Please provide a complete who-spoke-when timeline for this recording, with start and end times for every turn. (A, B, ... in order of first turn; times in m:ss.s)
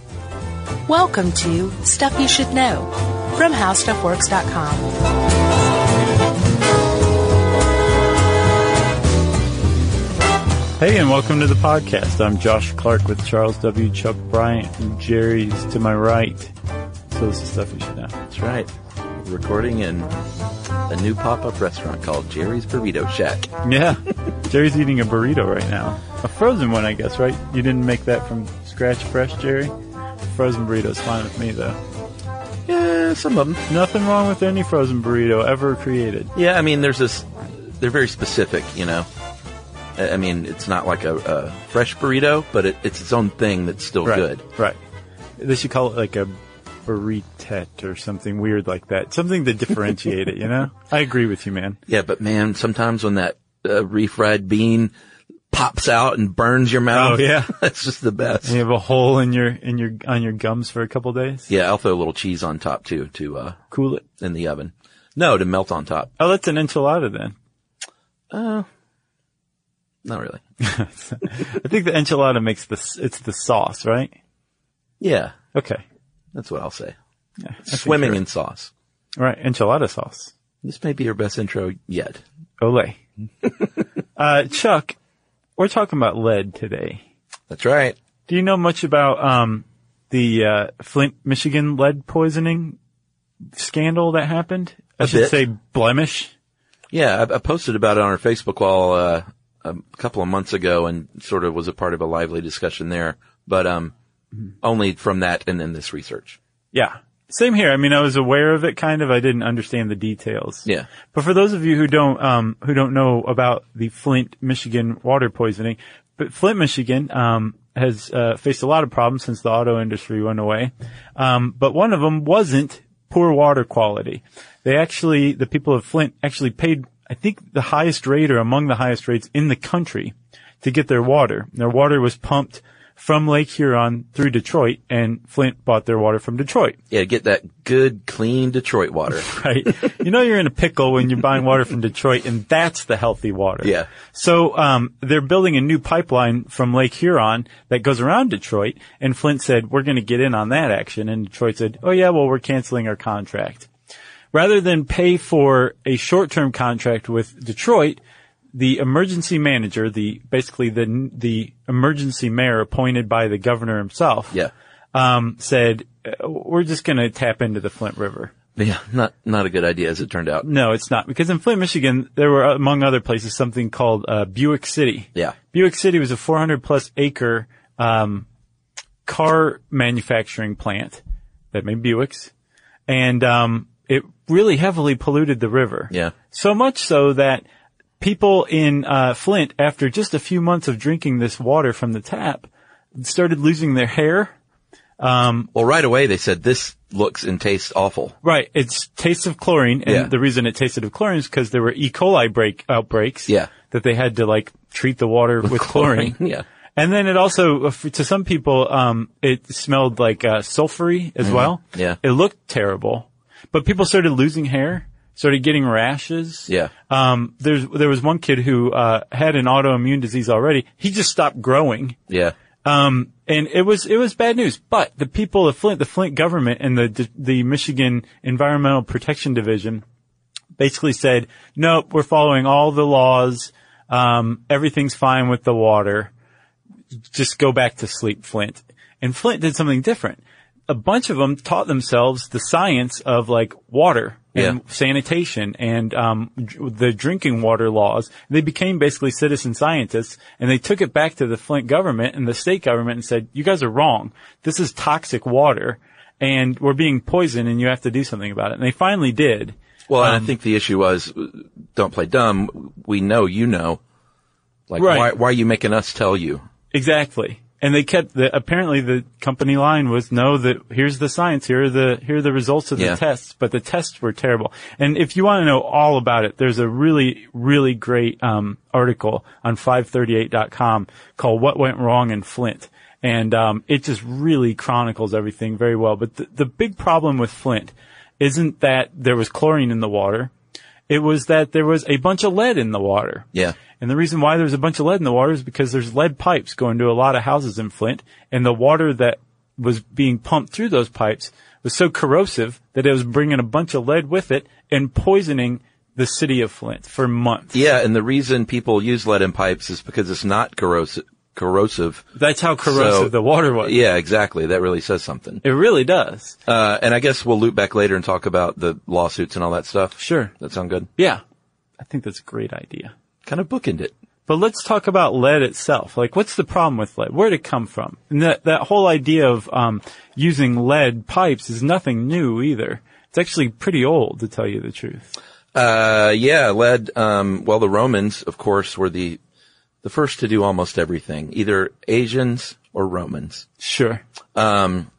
0:00.9-0:04.9 A
0:10.8-0:16.5 B
0:17.1-0:18.2 B
0:18.3-0:18.7 C
0:19.2-0:20.2 C
0:20.9-0:23.5 C
0:23.6-0:29.7 B
0:30.3-0:31.8 B
0:32.7-0:33.6 C
0:33.7-0:36.3 B
0:36.4-0:39.1 C
0:40.0-0:44.4 C
0:44.0-0:44.8 B
0:45.4-0:46.3 B
0:46.9-0:51.8 B
0:51.9-0:54.9 C
0:55.5-0:58.6 C
0:56.9-0:57.5 B
0:58.4-1:01.5 B
1:01.5-1:03.6 C
1:03.7-1:04.0 B
1:04.2-1:06.1 C
1:06.2-1:07.4 B
1:08.3-1:08.7 C
1:10.0-1:10.4 C
1:10.6-1:14.1 B
1:15.0-1:15.4 C
1:15.5-1:15.8 B
1:16.3-1:17.0 C
1:17.4-1:18.2 B
1:17.7-1:18.7 C
1:19.2-1:20.3 B
1:20.6-1:22.2 C
1:22.6-1:23.0 B
1:24.2-1:25.0 B
1:25.6-1:27.0 B
1:27.5-1:28.0 C
1:28.3-1:32.8 B
1:33.6-1:36.3 B
1:35.0-1:35.4 C
1:36.9-1:43.9 C
1:44.6-1:46.4 C
1:46.7-2:16.8 B
2:16.9-2:19.3 C
2:19.2-2:33.7 B
2:34.3-2:38.0 B
2:38.5-2:44.4 B
2:44.9-2:48.3 B
2:48.6-2:50.4 C
2:50.4-2:58.3 B
2:59.0-3:01.0 B
3:01.5-3:02.3 B
3:02.9-3:07.4 B
3:08.0-3:14.3 B
3:15.0-3:15.5 B
3:15.5-3:18.2 C
3:18.2-3:26.2 B
3:19.9-3:20.1 C
3:25.4-3:26.4 C
3:26.8-3:42.0 B
3:31.2-3:32.0 C
3:42.1-3:42.4 C
3:42.6-3:49.8 B
3:50.6-3:56.1 B
3:57.1-4:20.3 B
4:19.9-4:23.8 C
4:24.7-4:26.4 C
4:24.8-4:25.1 B
4:26.7-4:50.3 B
4:50.9-4:53.3 B
4:53.8-5:07.5 B
5:07.5-5:12.1 C
5:12.2-5:13.8 B
5:12.6-5:15.4 C
5:15.4-5:16.4 B
5:16.5-5:20.9 C
5:20.0-5:20.3 B
5:21.0-5:21.2 B
5:21.8-5:22.9 B
5:23.3-5:23.9 C
5:24.3-5:35.1 B
5:35.5-5:39.2 C
5:39.8-5:43.5 C
5:43.6-5:44.0 B
5:44.4-5:44.9 C